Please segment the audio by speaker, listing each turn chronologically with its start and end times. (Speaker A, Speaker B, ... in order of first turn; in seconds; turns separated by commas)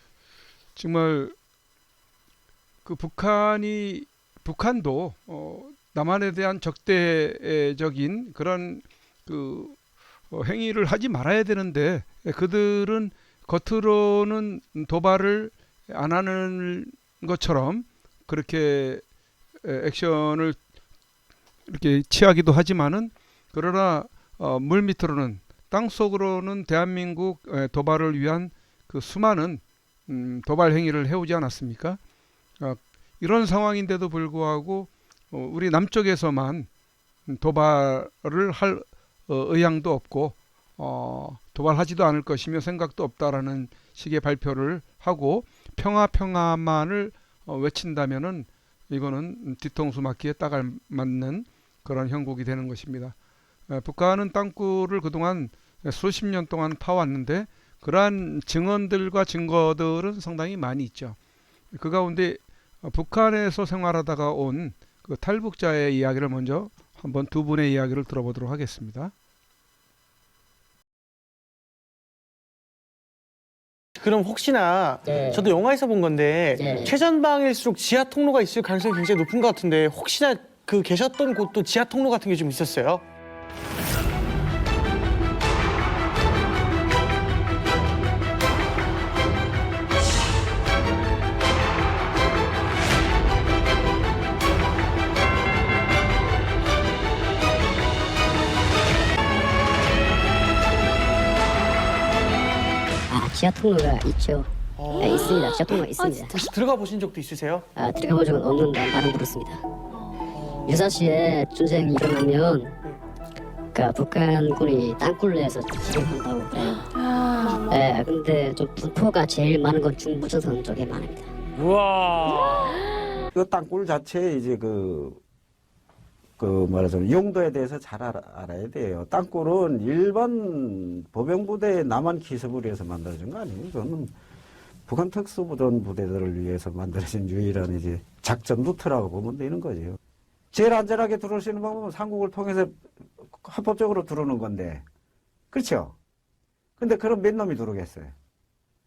Speaker A: 0.8-1.4, Speaker A: 2.9-9.8, Speaker A: 10.3-19.0, Speaker A: 19.6-20.6, Speaker A: 21.7-32.0, Speaker A: 32.6-36.7, Speaker A: 37.3-53.1, Speaker A: 53.7-61.2, Speaker A: 61.7-69.1, Speaker B: 74.0-83.0, Speaker C: 75.1-75.5, Speaker C: 76.6-76.9, Speaker C: 103.1-106.3, Speaker B: 104.8-105.4, Speaker B: 106.2-107.7, Speaker C: 107.8-109.6, Speaker C: 110.7-112.8, Speaker C: 113.8-121.3, Speaker D: 123.3-125.2, Speaker D: 126.4-134.1, Speaker D: 134.9-140.0, Speaker D: 140.5-142.8, Speaker D: 143.3-144.8, Speaker D: 145.5-146.0, Speaker D: 146.8-148.1